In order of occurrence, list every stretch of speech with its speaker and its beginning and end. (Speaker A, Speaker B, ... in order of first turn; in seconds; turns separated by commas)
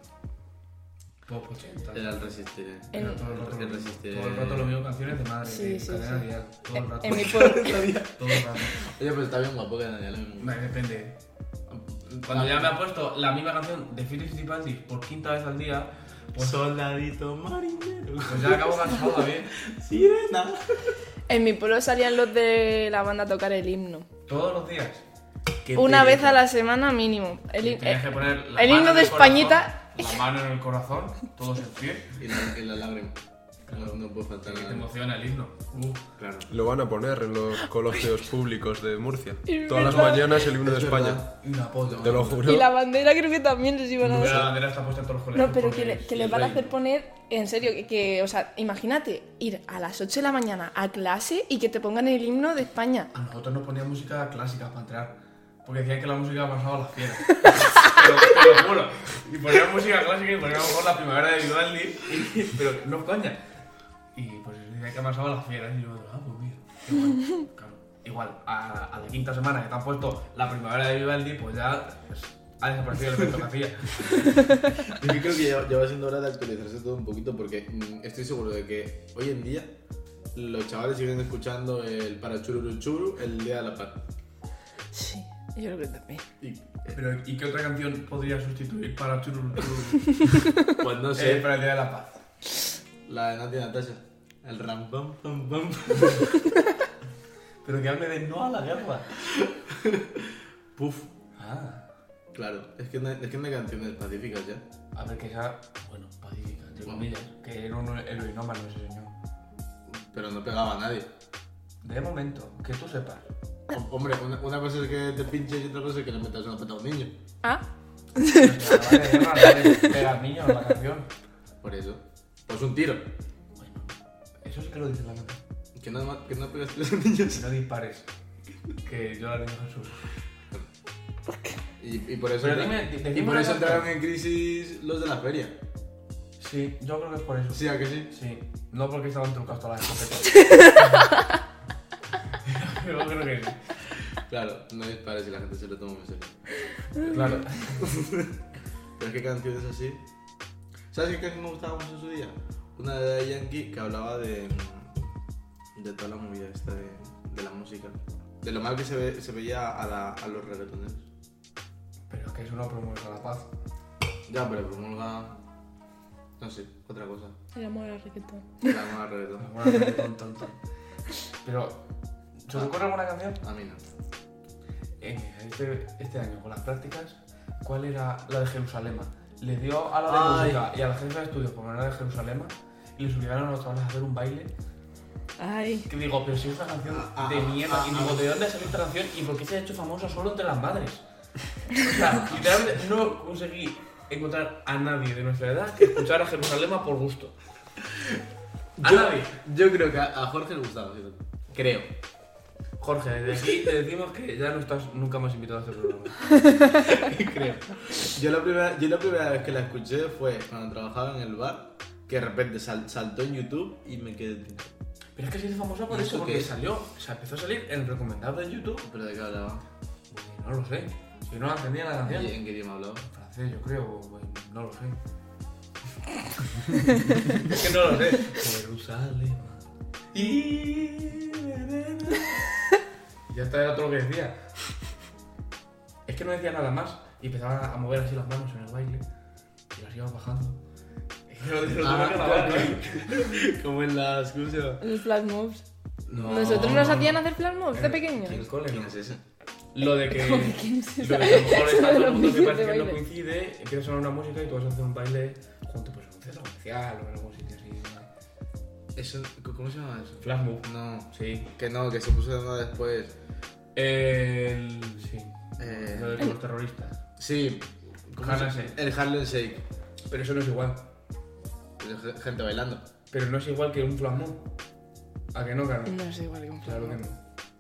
Speaker A: 1.3-2.3, Speaker B: 1.9-4.8, Speaker C: 2.9-3.2, Speaker A: 2.9-7.4, Speaker C: 5.5-6.3, Speaker C: 6.8-7.9, Speaker B: 7.1-10.6, Speaker A: 8.2-8.8, Speaker A: 10.4-11.2, Speaker B: 11.7-12.7, Speaker A: 12.2-16.6, Speaker B: 16.4-21.0, Speaker A: 18.3-19.5, Speaker C: 21.3-24.1, Speaker A: 24.3-25.0, Speaker B: 25.7-26.4, Speaker C: 25.8-29.8, Speaker A: 27.6-32.2, Speaker B: 32.2-33.2, Speaker A: 33.7-35.7, Speaker B: 33.7-34.9, Speaker B: 35.7-36.5, Speaker D: 36.5-41.2, Speaker C: 39.5-40.5, Speaker B: 39.8-41.3, Speaker A: 41.3-42.5, Speaker B: 41.9-42.4, Speaker D: 42.0-42.7, Speaker C: 42.4-44.5, Speaker A: 44.0-46.7, Speaker B: 44.1-44.5, Speaker C: 45.4-53.1, Speaker A: 53.1-63.4, Speaker A: 64.2-74.5, Speaker B: 74.9-79.7, Speaker B: 80.3-84.0, Speaker C: 84.9-86.2, Speaker B: 86.4-87.0, Speaker A: 86.9-90.4, Speaker B: 90.8-91.5, Speaker A: 91.1-92.2, Speaker B: 93.1-96.4, Speaker A: 97.6-99.1, Speaker B: 99.2-101.1, Speaker A: 101.4-101.9, Speaker B: 102.3-104.6, Speaker A: 104.9-109.1, Speaker B: 109.9-111.1, Speaker A: 111.8-113.3, Speaker B: 113.7-117.1, Speaker C: 118.2-118.5, Speaker A: 118.3-121.1, Speaker B: 121.6-123.1, Speaker A: 123.6-125.4, Speaker B: 125.8-127.5, Speaker A: 127.3-128.1, Speaker A: 128.8-130.0, Speaker B: 131.8-135.6, Speaker A: 132.4-134.0, Speaker A: 136.4-140.5, Speaker B: 137.5-138.1, Speaker C: 140.4-140.8, Speaker A: 142.4-143.6, Speaker B: 144.2-146.3, Speaker B: 147.0-148.3, Speaker A: 147.0-147.8, Speaker B: 149.0-150.0, Speaker B: 150.9-154.9, Speaker B: 155.8-161.0, Speaker A: 162.1-163.5, Speaker B: 164.3-165.4, Speaker B: 166.4-167.3, Speaker C: 167.6-168.8, Speaker B: 168.7-169.5, Speaker A: 169.4-170.6, Speaker A: 171.4-171.8, Speaker A: 172.4-173.4, Speaker B: 173.4-173.8, Speaker A: 175.0-184.5, Speaker B: 180.1-180.7, Speaker C: 185.4-185.9, Speaker A: 185.9-191.0, Speaker B: 186.9-188.3, Speaker A: 191.7-197.3, Speaker B: 198.8-201.9, Speaker A: 198.8-199.3, Speaker A: 202.8-206.3, Speaker B: 206.7-214.7, Speaker A: 215.2-218.9, Speaker B: 215.9-216.6, Speaker B: 218.8-219.6, Speaker A: 220.1-222.3, Speaker B: 222.0-223.1, Speaker A: 223.1-225.0, Speaker A: 227.4-232.5, Speaker A: 233.3-234.4, Speaker A: 236.1-239.0, Speaker A: 239.7-240.6, Speaker A: 241.3-243.1, Speaker B: 241.8-244.8, Speaker C: 244.8-245.6, Speaker B: 246.1-247.1, Speaker A: 246.1-247.2, Speaker C: 246.3-248.4, Speaker A: 247.7-249.0, Speaker B: 248.2-249.2, Speaker A: 249.7-258.1, Speaker C: 250.1-253.0, Speaker B: 258.9-263.1, Speaker A: 260.2-261.5, Speaker A: 263.8-267.0, Speaker B: 265.6-266.4, Speaker B: 267.2-269.6, Speaker A: 268.2-268.8, Speaker A: 270.1-270.9, Speaker B: 271.8-272.9, Speaker A: 273.1-274.5, Speaker A: 275.3-276.0, Speaker C: 275.9-277.0, Speaker A: 276.6-277.2